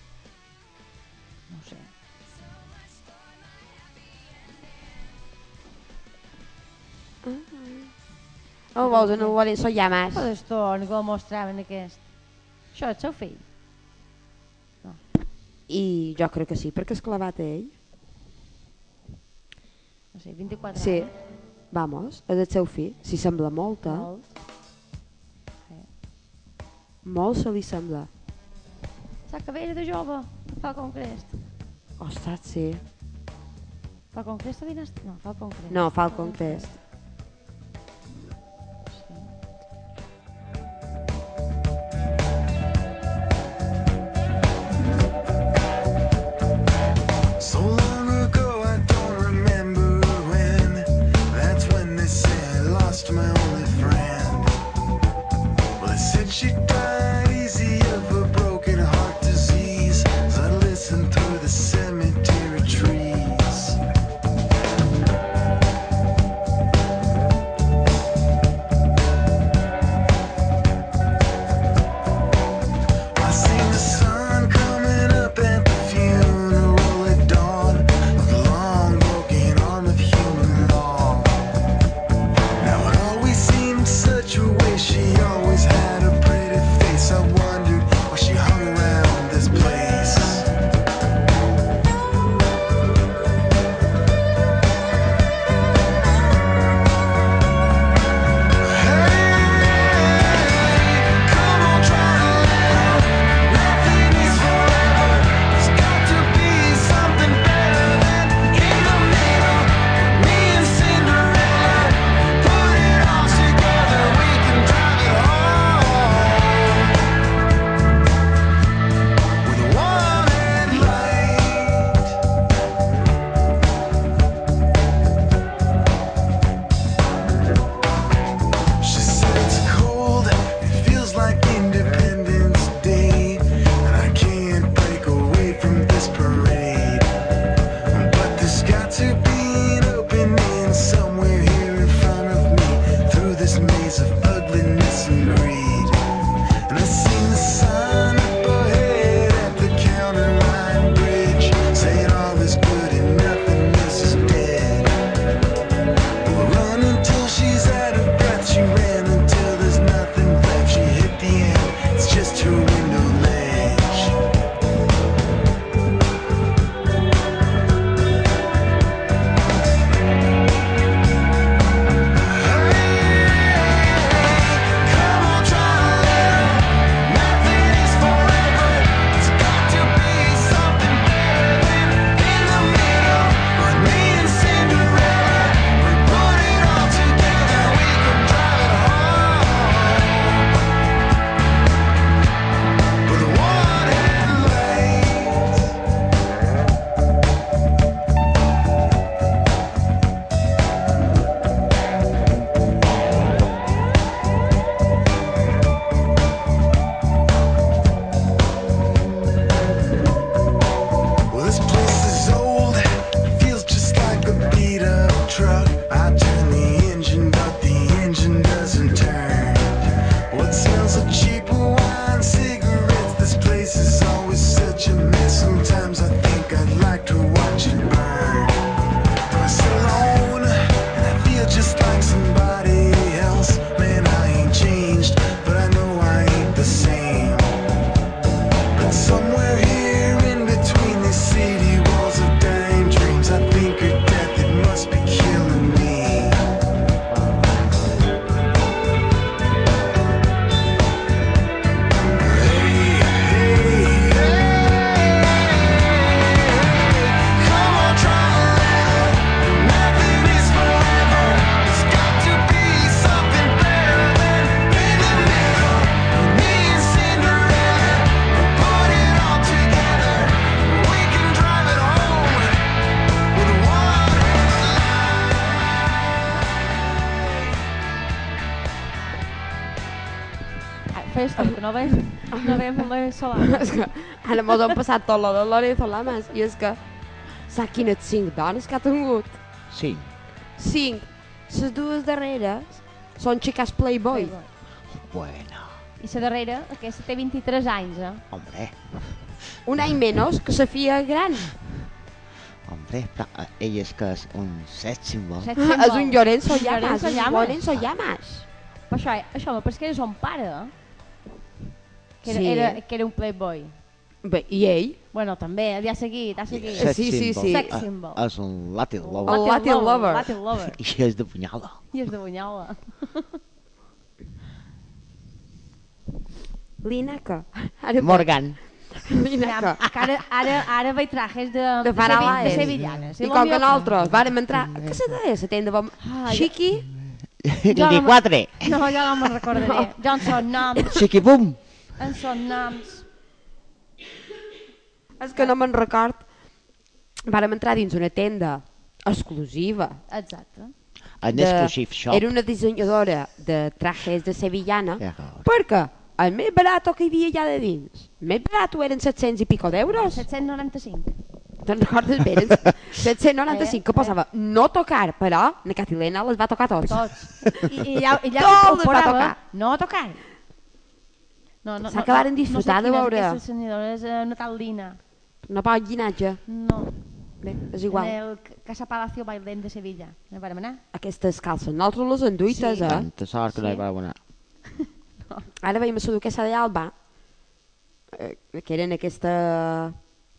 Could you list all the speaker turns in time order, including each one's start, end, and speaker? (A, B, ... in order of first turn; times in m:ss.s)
0:01.5-0:01.9 A
0:07.2-0:07.9 B
0:08.7-0:10.3 B
0:08.8-0:09.4 A
0:10.1-0:12.0 A
0:12.7-0:13.4 A
0:15.7-0:17.7 B
0:20.1-0:21.1 A
0:20.8-0:21.1 B
0:21.7-0:24.1 B
0:23.8-0:24.3 A
0:27.0-0:28.1 B
0:29.3-0:31.4 A
0:32.0-0:32.8 B
0:34.1-0:36.7 A
0:35.7-0:36.7 B
0:38.9-0:39.3 A
0:47.4-0:54.5 C
0:55.8-1:03.8 C
1:13.2-1:21.4 C
1:22.6-1:30.5 C
1:38.6-1:57.0 C
1:59.4-2:02.1 C
2:08.8-2:17.1 C
2:17.9-2:26.0 C
2:26.7-2:35.0 C
2:36.2-2:44.2 C
2:52.2-3:10.5 C
3:13.0-3:15.6 C
3:31.3-3:39.8 C
3:40.3-3:48.6 C
3:49.3-3:57.6 C
3:58.7-4:06.4 C
4:12.2-4:32.6 C
4:33.3-4:35.6 C
4:40.9-4:43.7 A
4:42.3-4:42.6 B
4:43.4-4:46.8 B
4:47.5-4:49.4 B
4:49.7-4:50.1 D
4:50.6-4:54.4 B
4:54.1-4:54.5 A
4:54.9-4:55.8 D
4:56.0-4:58.2 A
4:58.3-4:59.4 D
4:59.6-5:01.5 B
5:02.7-5:05.5 D
5:05.4-5:07.7 A
5:05.6-5:08.5 B
5:08.9-5:10.7 A
5:12.2-5:13.7 A
5:12.2-5:12.8 B
5:14.2-5:15.0 B
5:15.1-5:18.2 A
5:16.5-5:19.4 D
5:16.8-5:17.7 B
5:19.0-5:20.8 A
5:19.3-5:20.3 B
5:20.7-5:21.8 D
5:21.9-5:23.4 A
5:26.8-5:29.9 B
5:28.0-5:28.6 D
5:29.4-5:33.9 A
5:31.8-5:36.9 B
5:32.1-5:32.9 D
5:34.5-5:35.1 D
5:36.0-5:36.5 A
5:37.4-5:38.7 D
5:37.7-5:41.0 A
5:39.5-5:39.9 B
5:40.8-5:41.6 D
5:42.0-5:43.1 A
5:45.2-5:46.2 B
5:47.2-5:50.0 B
5:50.1-5:50.7 A
5:51.2-5:52.2 D
5:51.3-6:00.2 B
5:55.0-5:55.4 D
6:00.0-6:01.1 A
6:01.6-6:07.7 B
6:03.5-6:04.2 A
6:06.9-6:10.2 A
6:08.3-6:09.4 B
6:11.6-6:15.0 A
6:11.8-6:13.4 B
6:15.5-6:16.4 B
6:16.5-6:16.9 A
6:17.4-6:18.2 B
6:17.9-6:20.8 A
6:20.9-6:23.1 B
6:22.5-6:22.9 A
6:22.8-6:24.2 D
6:23.5-6:23.8 A
6:25.6-6:26.9 B
6:28.1-6:30.0 B